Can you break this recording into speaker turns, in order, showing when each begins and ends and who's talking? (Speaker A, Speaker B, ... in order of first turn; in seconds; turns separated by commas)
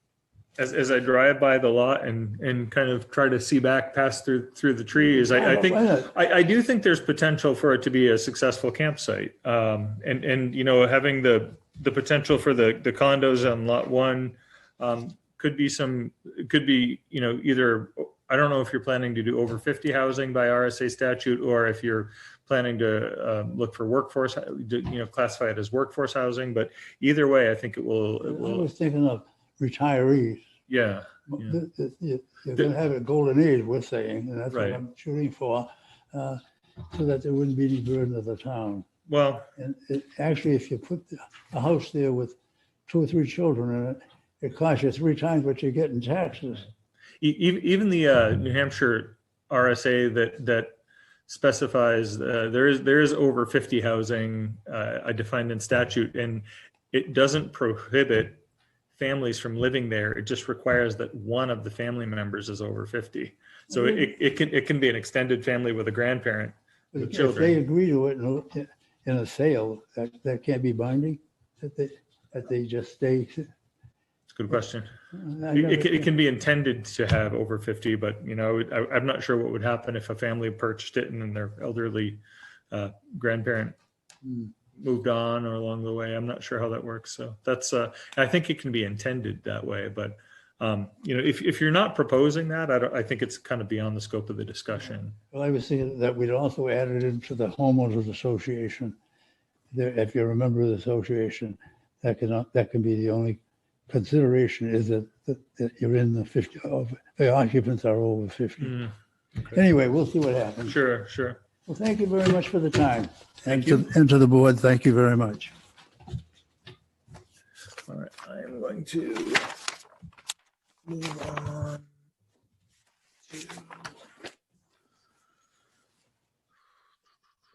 Speaker A: 0.6-28.7, Speaker B: 5.0-6.1, Speaker B: 28.2-30.5, Speaker A: 30.7-31.6, Speaker B: 31.3-38.9, Speaker A: 34.5-34.8, Speaker A: 39.1-39.5, Speaker B: 39.6-46.7, Speaker A: 47.2-50.8, Speaker A: 51.3-58.4, Speaker A: 59.0-67.6, Speaker B: 66.9-73.5, Speaker A: 74.3-74.9, Speaker B: 75.1-76.1, Speaker A: 75.5-83.8, Speaker A: 84.8-95.2, Speaker B: 95.3-99.0, Speaker B: 99.7-108.9, Speaker A: 108.6-108.9, Speaker B: 109.5-110.8, Speaker A: 110.7-111.4, Speaker B: 111.7-115.5, Speaker A: 113.5-113.9, Speaker A: 117.9-119.5, Speaker A: 120.9-121.8